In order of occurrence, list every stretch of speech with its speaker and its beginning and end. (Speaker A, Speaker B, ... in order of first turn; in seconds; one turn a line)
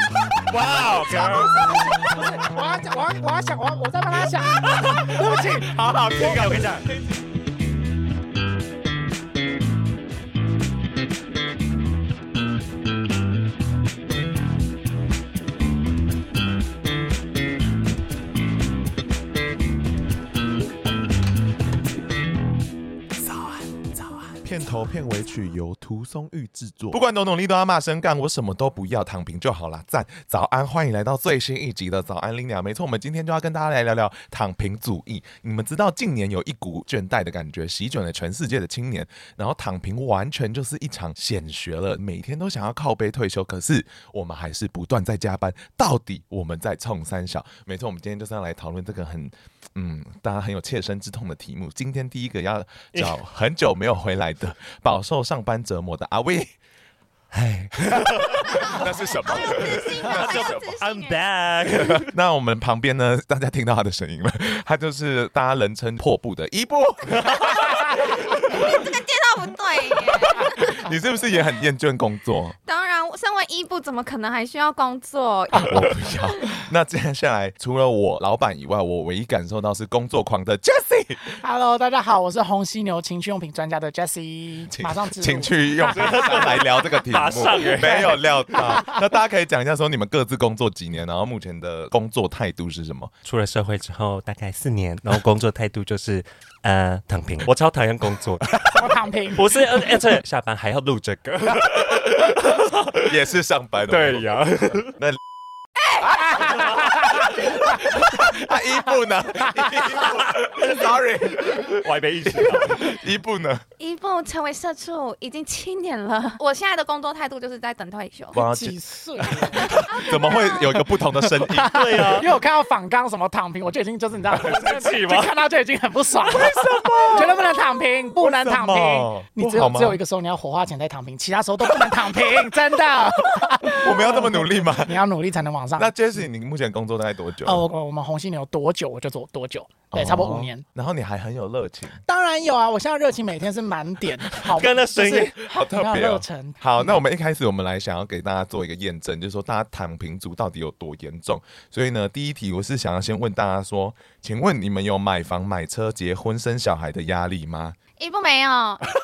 Speaker A: 0.5-1.7
Speaker B: 1.4-6.5
Speaker A: 4.7-5.0
Speaker C: 5.7-7.2
Speaker A: 6.2-6.8
Speaker C: 24.4-56.5
Speaker A: 57.3-58.9
Speaker C: 57.9-60.7
Speaker D: 58.6-61.2
Speaker A: 59.6-62.1
Speaker C: 61.8-67.8
Speaker D: 68.5-70.8
Speaker C: 70.6-72.5
Speaker D: 72.7-76.1
Speaker C: 75.6-81.4
Speaker B: 81.4-86.5
Speaker C: 84.7-93.1
Speaker A: 85.9-88.2
Speaker B: 88.5-88.9
Speaker A: 93.2-103.0
Speaker B: 98.7-99.5
Speaker C: 103.0-104.3
Speaker A: 103.9-104.9
Speaker C: 104.9-105.2
Speaker C: 106.0-113.6
Speaker B: 106.1-108.0
Speaker B: 109.6-109.9
Speaker A: 111.6-113.0
Speaker D: 113.8-118.4
Speaker C: 118.3-122.0
Speaker B: 118.4-120.5
Speaker D: 119.6-120.5
Speaker B: 121.4-135.9
Speaker A: 121.6-122.3
Speaker A: 124.3-125.3
Speaker C: 126.2-127.5
Speaker C: 128.2-130.0
Speaker C: 133.7-135.0
Speaker C: 135.8-137.7
Speaker B: 137.4-140.6
Speaker C: 139.9-142.0
Speaker B: 142.1-146.6
Speaker A: 144.3-145.4
Speaker C: 145.5-157.8
Speaker D: 158.0-158.9